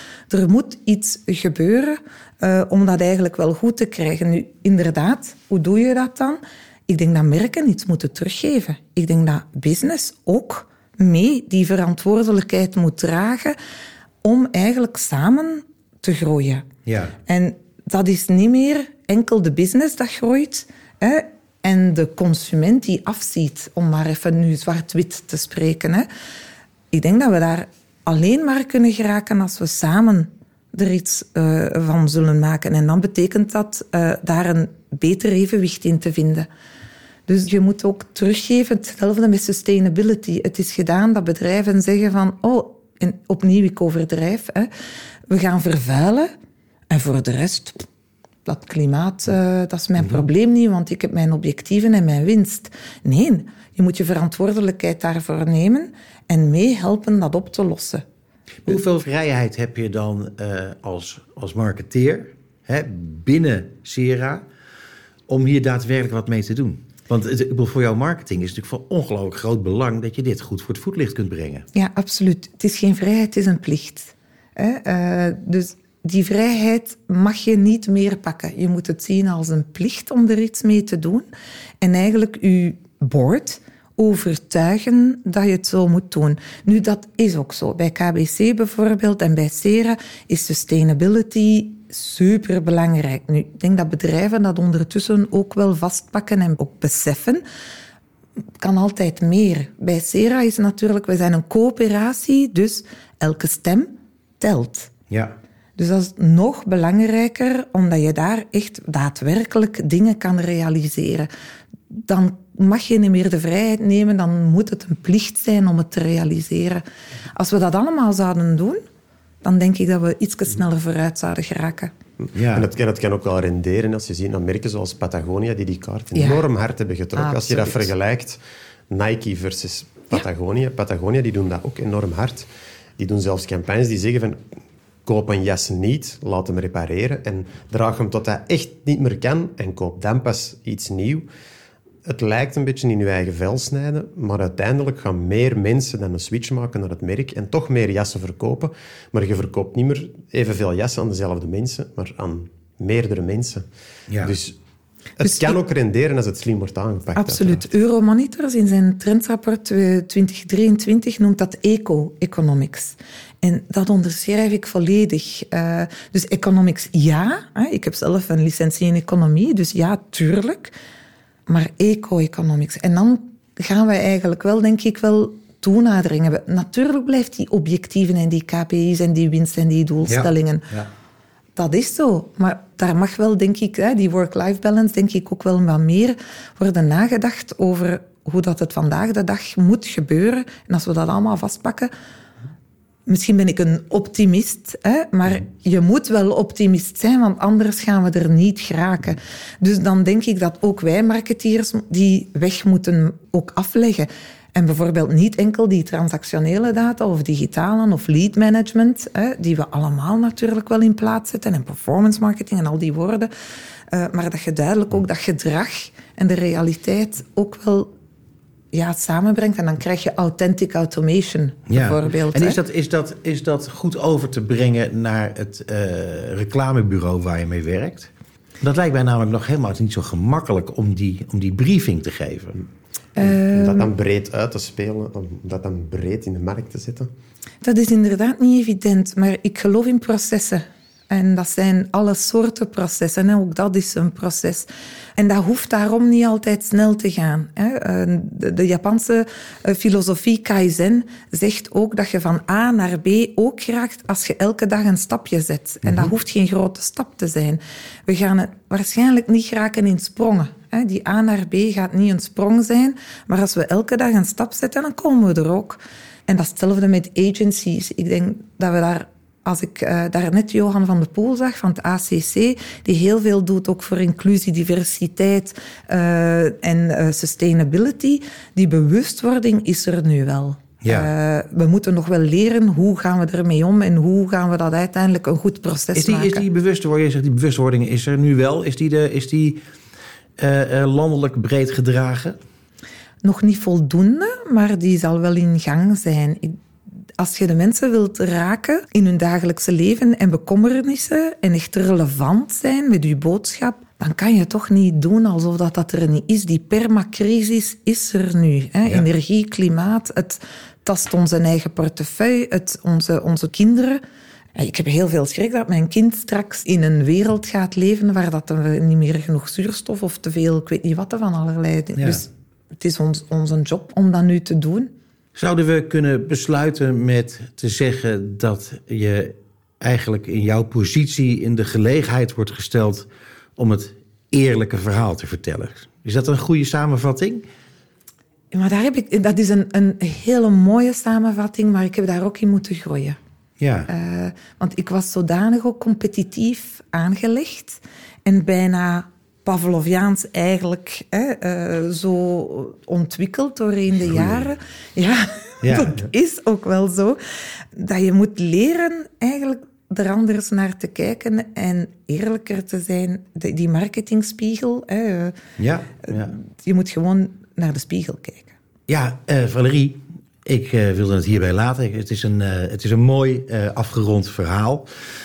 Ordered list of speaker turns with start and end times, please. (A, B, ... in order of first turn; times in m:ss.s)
0:00.3-0:13.6 A
0:14.2-0:16.6 A
0:16.8-0:17.1 B
0:17.2-0:26.1 A
0:26.9-0:36.5 A
0:37.3-0:44.7 A
0:45.3-0:46.3 A
0:46.9-0:47.8 A
0:48.4-0:58.0 A
0:50.0-0:50.2 B
0:58.6-1:04.4 B
1:05.3-1:11.6 B
1:11.7-1:21.3 A
1:21.8-1:37.4 A
1:38.6-1:44.9 A
1:45.1-1:45.3 B
1:45.8-1:51.3 A
1:51.9-1:58.8 A
1:59.4-2:01.9 A
2:02.2-2:14.4 C
2:02.3-2:02.7 B
2:06.1-2:06.4 A
2:07.2-2:07.9 A
2:15.0-2:21.3 C
2:22.0-2:33.6 C
2:34.2-2:34.6 C
2:35.2-2:37.6 C
2:35.2-2:35.6 A
2:37.2-2:50.7 A
2:51.5-3:00.7 A
3:00.0-3:00.9 B
3:01.6-3:11.9 A
3:13.0-3:33.3 A
3:33.9-3:37.9 A
3:38.7-3:42.6 A
3:41.7-3:48.1 B
3:48.6-3:52.6 B
3:53.2-3:53.9 A
3:53.2-3:57.1 C
3:57.6-4:46.4 A
4:15.8-4:16.1 C
4:40.8-4:41.1 B
4:46.0-4:49.6 B
4:50.4-4:52.4 B
4:53.2-4:56.5 A
4:57.2-5:14.0 A
5:14.6-5:24.9 A
5:22.0-5:22.2 B
5:25.4-5:33.0 B
5:33.6-5:37.4 B
5:38.5-5:43.2 A
5:43.6-5:43.9 B
5:43.9-5:57.2 A
5:55.6-5:56.0 B
5:57.7-6:05.4 A
6:05.6-6:06.3 B
6:06.1-6:08.5 A
6:08.9-6:14.8 B